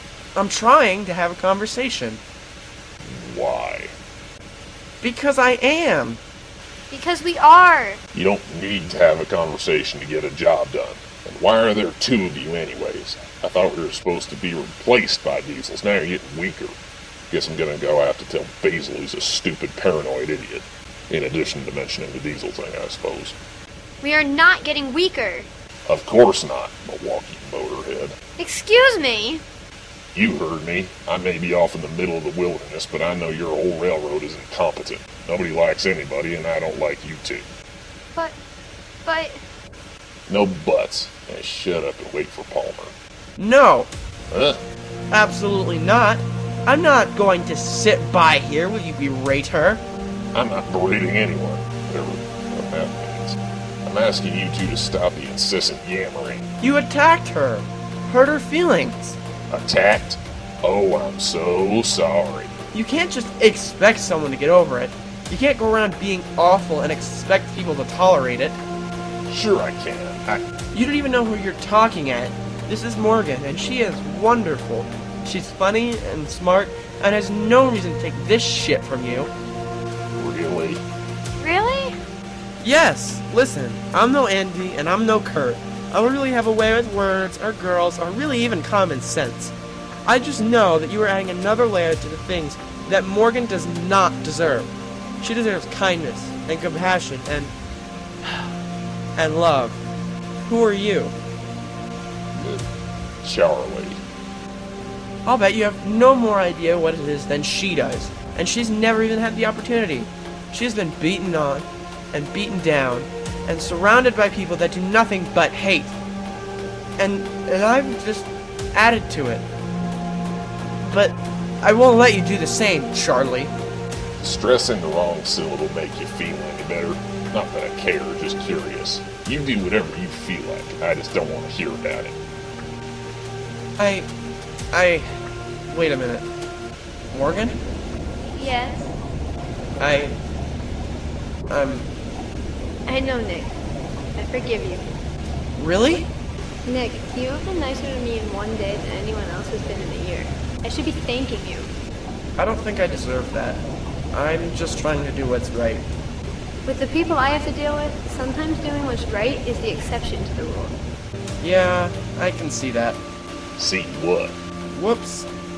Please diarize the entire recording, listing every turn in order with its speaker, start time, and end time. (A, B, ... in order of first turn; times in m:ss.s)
0:00.4-0:02.2 A
0:03.0-0:03.9 B
0:05.0-0:06.2 A
0:06.9-0:08.0 C
0:08.1-0:16.8 B
0:17.3-0:23.4 B
0:24.0-0:25.5 C
0:25.9-0:28.2 B
0:28.4-0:29.4 C
0:30.1-0:37.5 B
0:39.0-0:39.4 C
0:40.3-0:42.9 B
0:43.4-0:43.9 A
0:44.3-0:44.6 B
0:45.1-0:49.8 A
0:50.3-0:56.5 B
0:56.6-0:59.2 A
0:59.5-1:02.6 B
1:02.7-1:08.6 A
1:09.3-1:10.5 B
1:10.7-1:19.3 A
1:20.2-1:20.8 B
1:21.4-1:22.0 C
1:22.6-1:29.5 A
1:30.0-1:37.5 A
1:39.2-1:39.8 A
1:40.4-1:41.2 A
1:42.4-1:42.6 B
1:43.2-1:44.0 B
1:45.3-1:56.0 A
1:57.0-1:59.5 A
2:00.8-2:03.5 A
2:04.2-2:12.2 B
2:13.8-2:14.1 A
2:14.7-2:15.2 A
2:15.7-2:16.3 A
2:17.1-2:17.6 A
2:18.3-2:19.0 C
2:19.8-2:20.2 A
2:21.5-2:21.9 A
2:22.9-2:23.5 C
2:24.2-2:24.9 C
2:25.6-2:26.1 A
2:26.6-2:31.7 C
2:32.4-2:35.9 A
2:36.6-2:40.8 C
2:41.4-2:43.0 A
2:43.6-2:44.4 B
2:44.7-2:45.3 A